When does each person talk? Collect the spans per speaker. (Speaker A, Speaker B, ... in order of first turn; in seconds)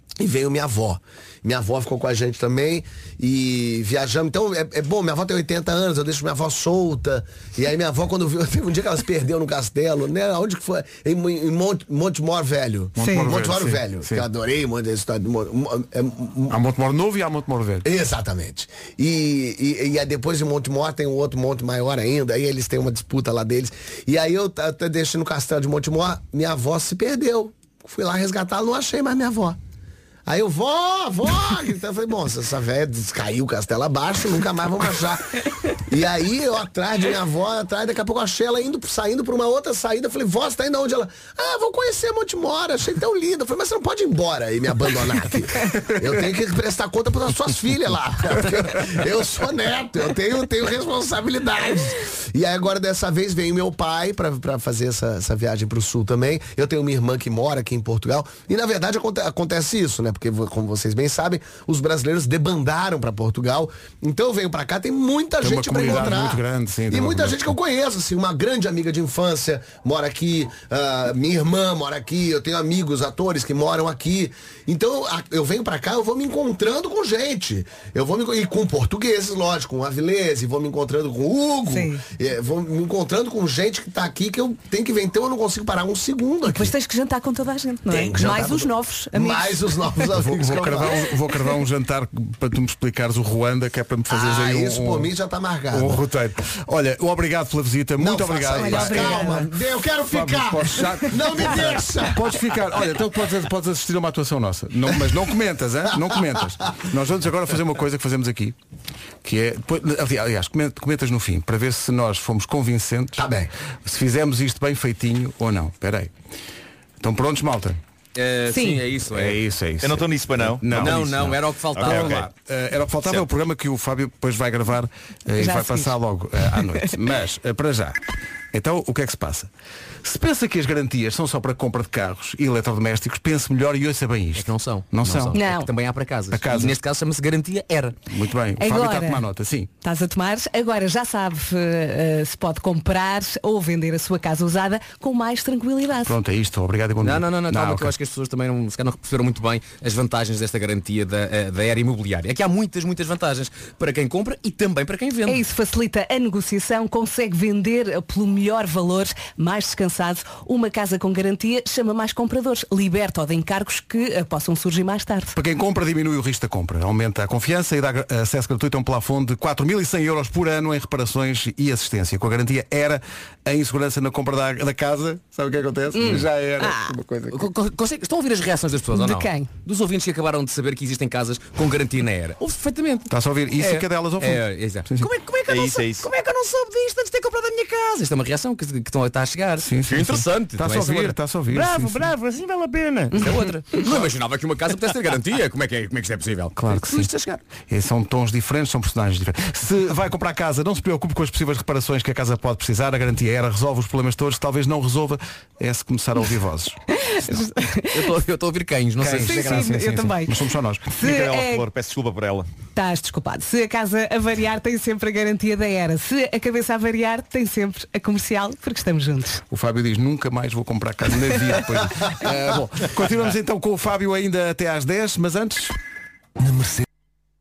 Speaker A: 0.2-16.6, 17.8-29.6, 30.2-86.7, 87.9-91.0, 94.1-96.0, 98.0-102.6, 113.2-113.5, 226.4-226.8
Speaker B: 12.9-14.2, 16.5-17.9, 65.4-67.5, 90.1-95.1, 95.7-108.6, 109.2-113.3, 113.8-116.1, 117.0-117.8, 119.0-128.0, 128.5-129.5, 130.0-135.4, 136.3-136.8, 138.1-139.7, 146.0-147.9, 165.3-177.5, 183.1-185.1, 189.6-192.1, 196.6-197.1, 197.7-206.8, 209.0-210.9, 219.5-225.8
Speaker C: 13.0-13.3, 81.7-82.0, 86.5-90.0, 98.5-99.5, 118.5-118.8, 125.4-125.9, 126.6-126.9, 135.3-135.7, 138.6-139.2, 139.8-146.2, 155.2-165.3, 175.9-176.9, 178.9-179.5, 193.1-193.8, 206.9-208.1, 209.2-210.3, 210.9-211.7, 212.7-219.4
Speaker D: 118.1-119.4, 120.7-122.2, 134.3-137.9, 147.0-155.4, 177.3-197.4, 207.9-209.7
Speaker E: 119.8-121.1, 121.8-122.3, 185.5-186.1, 210.9-212.5